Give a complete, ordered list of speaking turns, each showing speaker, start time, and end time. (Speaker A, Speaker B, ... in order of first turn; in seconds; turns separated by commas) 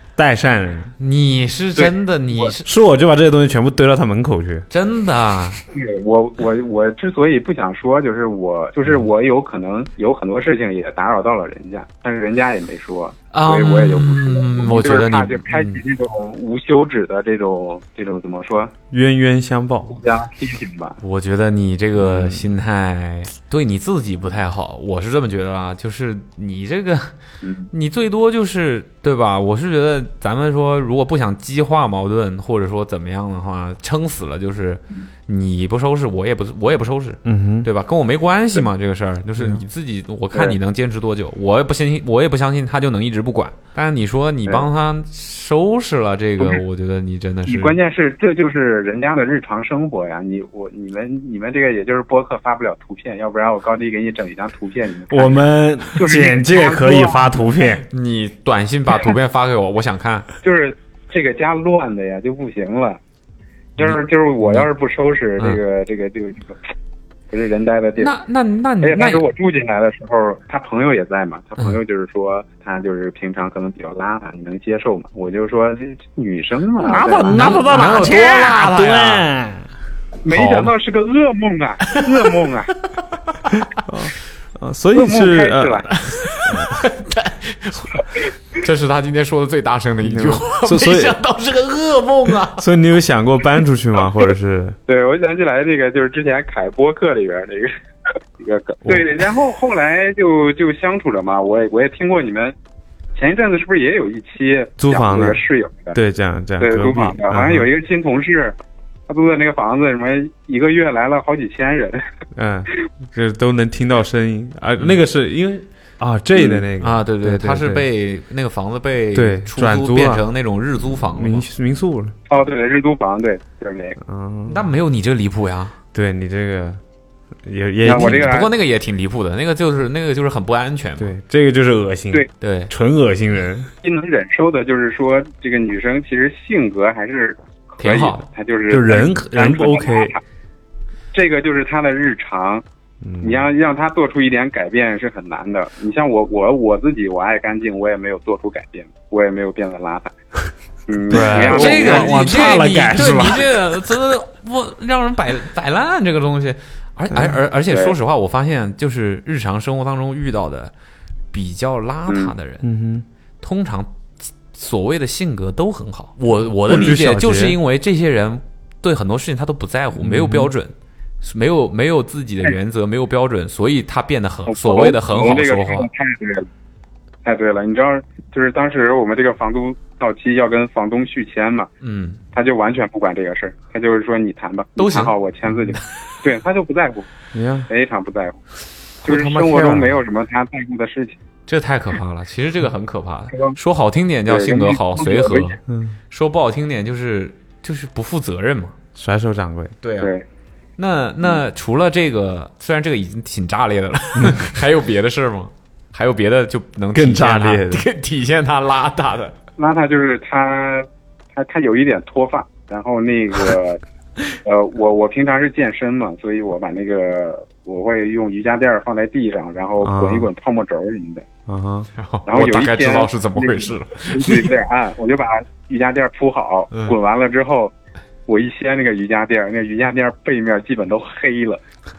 Speaker A: 0.2-0.9, Speaker B: 1.0-2.7, Speaker C: 1.8-2.5, Speaker A: 2.6-4.7, Speaker B: 4.7-5.6, Speaker C: 5.7-18.7, Speaker B: 13.3-15.6, Speaker A: 18.9-20.0, Speaker C: 19.9-21.0, Speaker B: 21.0-27.1, Speaker A: 22.0-22.4, Speaker C: 27.4-27.7, Speaker B: 27.7-47.8, Speaker A: 37.3-37.7, Speaker C: 47.5-57.4, Speaker A: 55.1-57.8, Speaker B: 57.9-60.3, Speaker C: 60.4-63.0, Speaker C: 63.8-66.6, Speaker B: 63.8-64.7, Speaker C: 67.3-68.1, Speaker B: 68.0-69.2, Speaker C: 68.8-77.8, Speaker A: 76.8-79.7, Speaker B: 77.3-79.3, Speaker C: 80.2-82.7, Speaker B: 80.3-80.7, Speaker A: 83.8-86.8, Speaker C: 84.9-85.9, Speaker B: 86.1-92.7, Speaker A: 90.0-91.2, Speaker A: 92.5-94.8, Speaker C: 94.9-97.7, Speaker C: 98.4-102.5, Speaker C: 103.2-106.0, Speaker A: 104.8-105.4, Speaker A: 105.9-107.7, Speaker C: 106.6-108.6, Speaker C: 109.1-112.0, Speaker A: 112.3-117.9, Speaker C: 116.4-116.7, Speaker B: 116.8-121.5, Speaker A: 119.1-120.2, Speaker A: 121.0-122.2, Speaker C: 122.3-124.0, Speaker A: 124.0-124.7, Speaker B: 124.5-125.8, Speaker A: 125.9-126.8, Speaker A: 127.4-128.4, Speaker C: 127.8-128.5, Speaker B: 127.9-131.1, Speaker A: 131.0-133.7, Speaker B: 132.4-132.7, Speaker C: 133.8-140.2, Speaker B: 137.8-138.2, Speaker A: 138.7-140.1, Speaker C: 141.1-142.6, Speaker A: 143.0-143.5, Speaker C: 143.2-150.1, Speaker C: 150.9-152.3, Speaker A: 151.1-153.5, Speaker B: 151.2-160.7, Speaker A: 157.1-157.4, Speaker C: 157.7-158.0, Speaker B: 161.3-162.7, Speaker C: 162.1-162.3, Speaker A: 162.6-163.1, Speaker B: 163.4-163.9, Speaker B: 164.5-175.9, Speaker A: 166.7-167.6, Speaker A: 170.0-170.5, Speaker C: 174.5-176.5, Speaker C: 177.2-181.7, Speaker B: 181.8-182.2, Speaker C: 182.3-187.1, Speaker B: 184.8-185.1, Speaker A: 187.3-187.7, Speaker C: 187.7-188.4, Speaker C: 189.0-191.2, Speaker A: 189.0-190.0, Speaker B: 191.5-195.6, Speaker C: 193.3-193.6, Speaker C: 194.3-195.5, Speaker A: 195.7-196.0, Speaker B: 196.1-198.8, Speaker A: 199.0-199.8, Speaker B: 199.8-200.1, Speaker C: 200.0-200.2, Speaker B: 200.8-209.4, Speaker A: 204.2-204.4, Speaker A: 206.9-207.8, Speaker C: 209.6-213.8, Speaker C: 214.4-221.2, Speaker A: 219.8-220.3, Speaker A: 221.5-221.9, Speaker B: 222.0-224.5, Speaker C: 222.3-227.7, Speaker C: 228.3-231.6